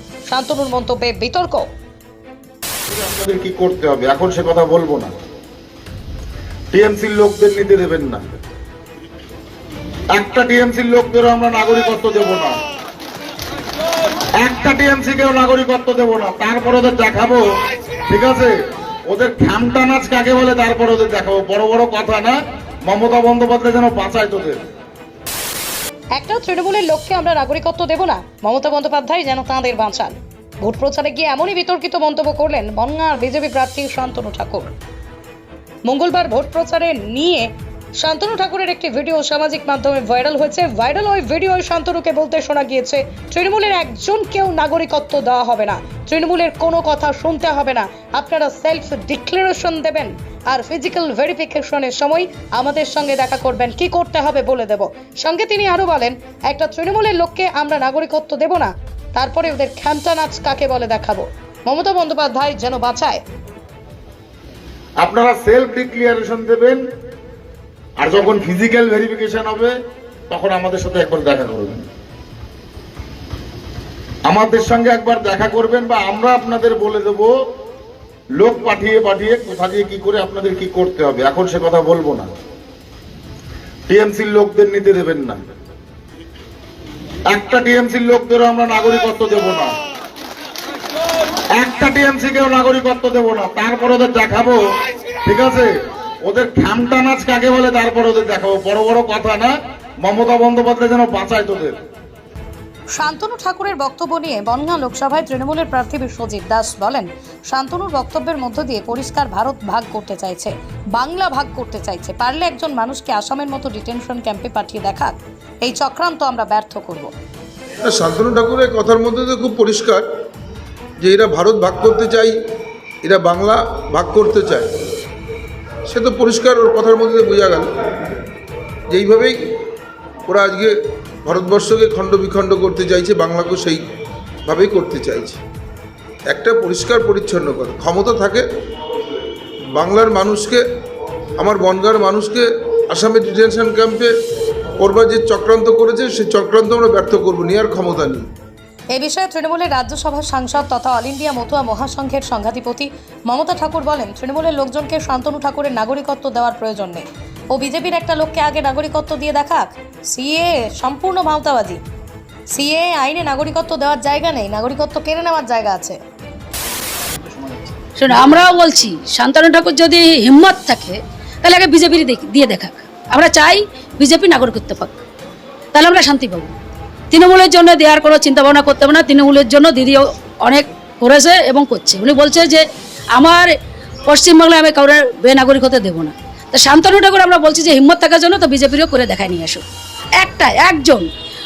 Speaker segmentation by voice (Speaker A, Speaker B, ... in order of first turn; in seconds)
Speaker A: 0.3-1.6, 26.1-34.7, 35.9-63.2, 103.0-117.1, 148.9-161.8, 162.5-166.0
Speaker B: 2.9-5.1, 6.7-8.3, 10.1-12.6, 14.4-17.4, 18.1-18.6, 19.1-24.6, 65.0-66.8, 68.0-69.7, 70.3-71.8, 74.2-77.3, 78.4-82.3, 83.9-85.4, 87.3-89.7, 91.5-94.6, 95.2-95.7, 96.2-101.8
Speaker C: 117.8-120.0, 121.0-122.3, 123.0-124.7, 125.9-127.7, 128.9-129.3, 130.2-133.8, 134.4-135.4, 136.3-138.4, 139.7-140.6, 141.4-144.1, 144.8-148.2
Speaker D: 167.9-175.0, 175.7-176.5, 177.1-183.5, 184.1-189.6, 190.2-191.1